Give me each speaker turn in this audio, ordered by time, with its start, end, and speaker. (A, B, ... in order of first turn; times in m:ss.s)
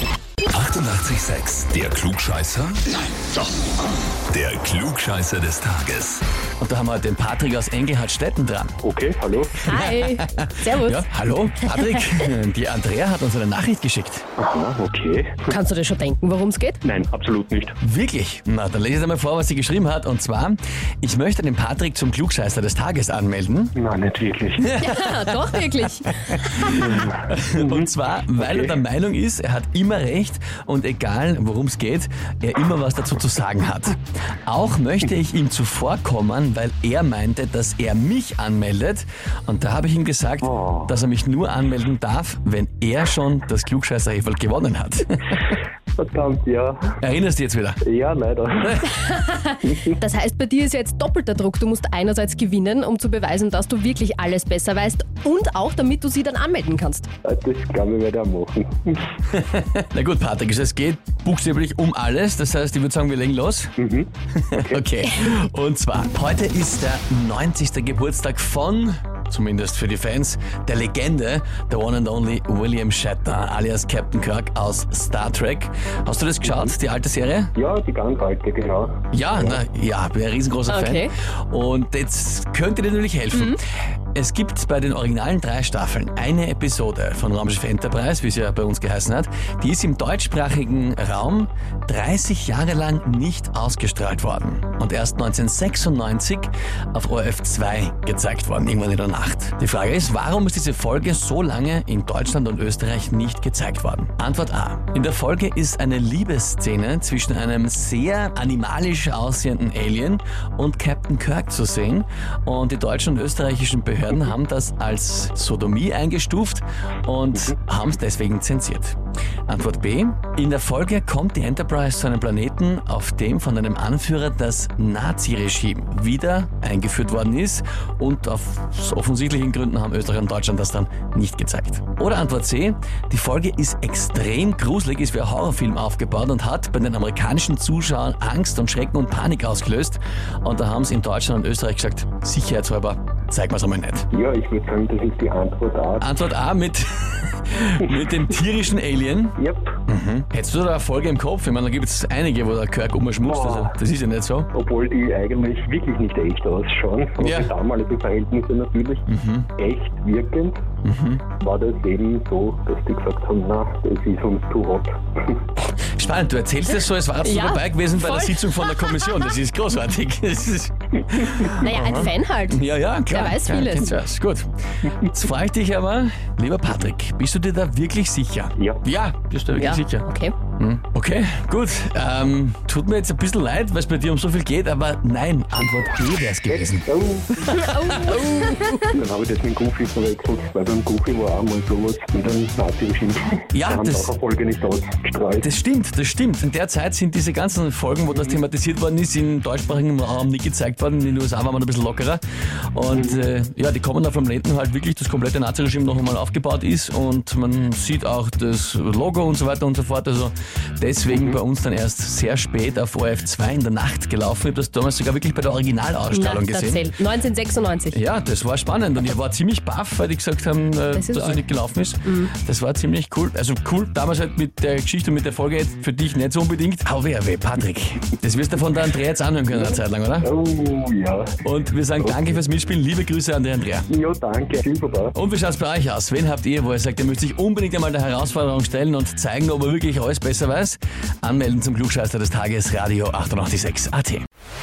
0:00.5-0:03.0 A
0:04.3-0:06.2 A
0:06.6-0:08.8 B
0:08.8-0:09.7 C
0:09.6-0:11.0 D
0:09.6-0:14.2 B
0:11.8-0:12.1 D
0:14.4-0:15.6 C
0:15.5-0:16.8 D
0:16.8-0:17.8 C
0:17.8-0:23.7 B
0:23.7-0:24.7 C
0:24.6-0:45.5 B
0:24.8-0:26.8 D
0:26.7-0:28.8 C
0:40.4-0:40.9 C
0:46.0-0:46.9 C
0:47.0-0:47.8 B
0:47.8-0:48.9 C
0:48.6-0:48.9 B
0:48.9-0:57.1 D
0:57.2-0:59.0 C
0:59.3-1:03.8 B
1:03.8-1:04.8 C
1:04.3-1:17.5 B
1:16.4-1:16.7 C
1:17.5-1:19.6 C
1:19.1-1:23.6 B
1:20.7-1:21.1 D
1:23.3-1:23.6 D
1:24.1-1:59.0 B
1:59.5-2:24.1 B
2:24.1-2:26.1 C
2:26.0-2:34.5 B
2:29.4-2:29.7 C
2:33.2-2:33.8 C
2:34.5-2:39.0 C
2:37.2-2:37.5 B
2:39.1-2:39.5 B
2:39.6-2:40.6 C
2:40.8-2:41.2 B
2:41.4-2:45.4 C
2:46.0-3:08.3 B
2:47.2-2:49.2 D
2:51.6-2:53.9 D
2:58.6-2:58.8 C
2:59.5-3:00.3 D
3:06.7-3:07.5 C
3:07.5-3:08.9 D
3:08.9-3:15.5 C
3:13.5-3:14.1 B
3:15.4-3:22.2 B
3:22.7-3:36.9 B
3:22.9-3:23.3 C
3:31.1-3:31.4 C
3:36.1-3:38.0 D
3:37.9-3:50.3 B
3:40.9-3:41.4 D
3:42.0-3:42.3 D
3:49.5-3:51.3 C
3:51.4-3:53.9 B
3:52.0-3:52.3 C
3:53.9-3:55.1 C
3:55.1-4:04.2 B